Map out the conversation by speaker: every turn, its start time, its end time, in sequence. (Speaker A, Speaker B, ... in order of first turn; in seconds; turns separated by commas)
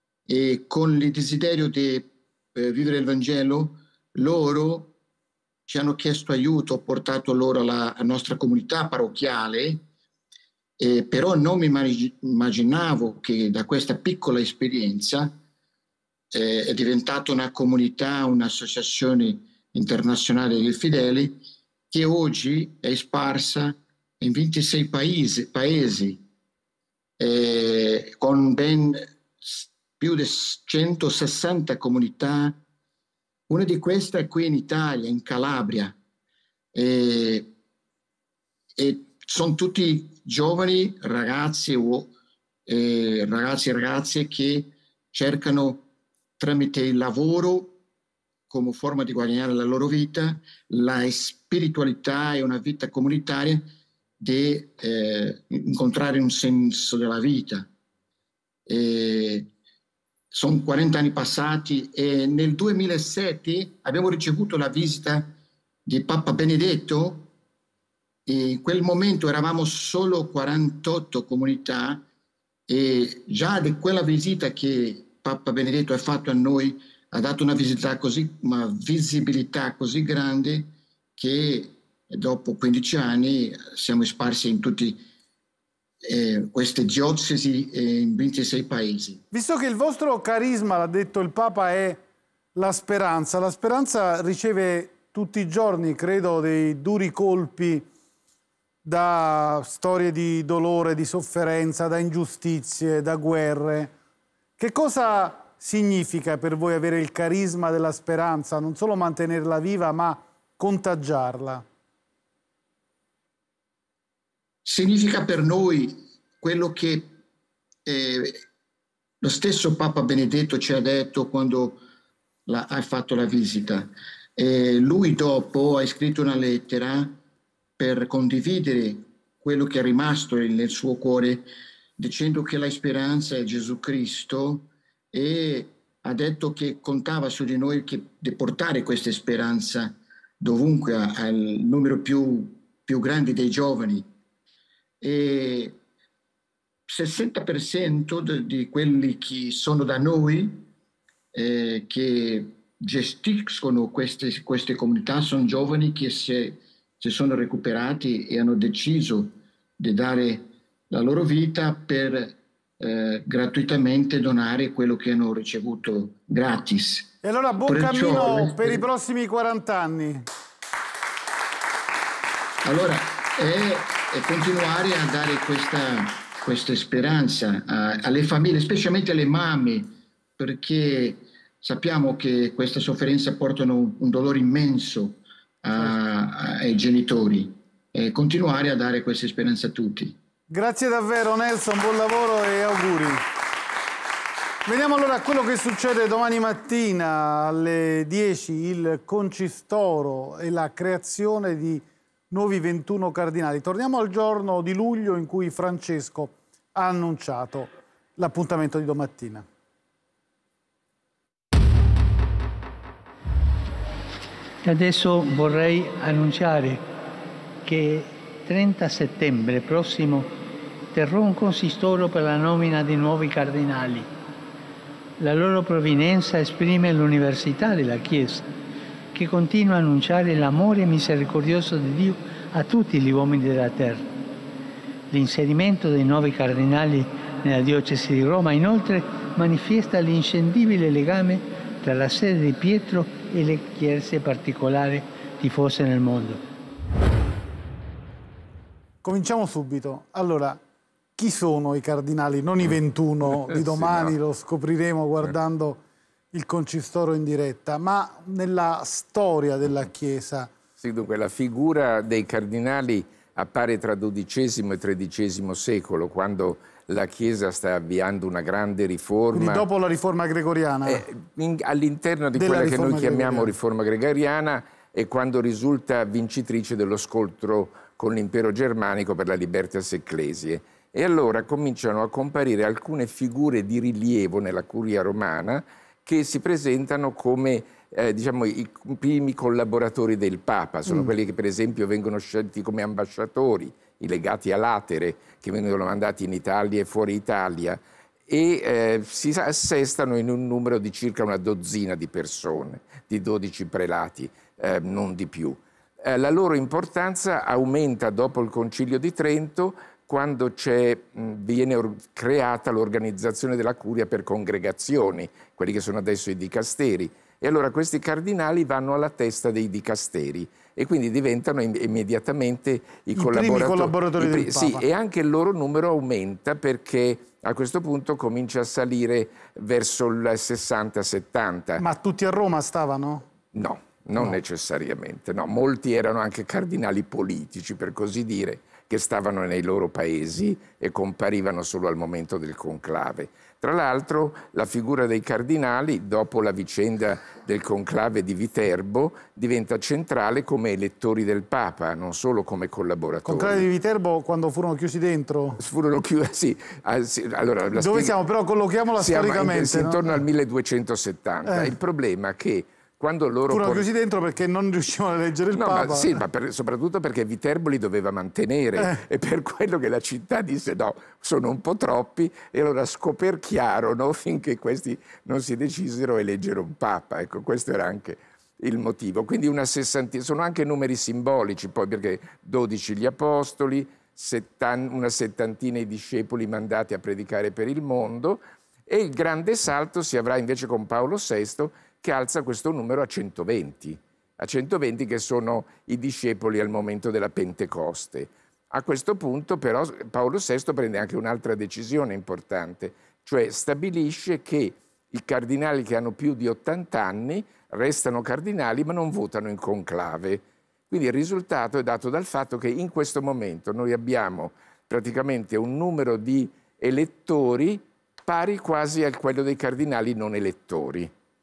Speaker A: 0.3-5.0, Speaker A: 5.7-9.8, Speaker A: 10.8-15.4, Speaker A: 16.3-26.2, Speaker A: 27.2-32.6, Speaker A: 33.5-36.0, Speaker A: 36.7-37.5, Speaker A: 38.8-42.1, Speaker A: 42.7-45.9, Speaker A: 46.4-47.8, Speaker A: 48.5-53.7, Speaker A: 54.2-57.7, Speaker A: 58.6-59.5, Speaker A: 60.3-67.3, Speaker A: 68.2-72.0, Speaker A: 72.7-85.0, Speaker A: 86.1-89.2, Speaker B: 89.3-92.0, Speaker B: 92.5-97.9, Speaker B: 98.8-103.9, Speaker B: 104.6-111.6, Speaker A: 114.6-117.2, Speaker A: 117.8-118.4, Speaker A: 119.2-121.8, Speaker A: 122.5-127.2, Speaker A: 127.8-144.1, Speaker A: 145.0-145.8, Speaker A: 146.9-150.7, Speaker A: 151.3-167.1, Speaker B: 167.2-170.2, Speaker A: 167.6-168.8, Speaker A: 172.6-190.2, Speaker B: 190.5-193.2, Speaker B: 194.7-209.4, Speaker C: 214.6-216.8, Speaker C: 217.6-220.3, Speaker C: 220.9-224.1, Speaker C: 225.2-228.4, Speaker C: 229.1-234.1, Speaker C: 235.1-246.4, Speaker B: 249.0-250.6, Speaker B: 251.2-255.8, Speaker D: 253.6-254.1, Speaker B: 256.3-260.5, Speaker D: 260.8-269.6, Speaker B: 269.3-271.0, Speaker D: 270.9-331.8, Speaker B: 272.4-273.5, Speaker B: 323.1-324.8, Speaker B: 331.8-333.3, Speaker D: 333.5-353.6, Speaker B: 353.2-355.6, Speaker D: 355.6-358.1, Speaker B: 357.8-360.2, Speaker D: 359.0-363.9, Speaker B: 361.4-361.7, Speaker B: 363.5-366.2, Speaker D: 365.5-421.1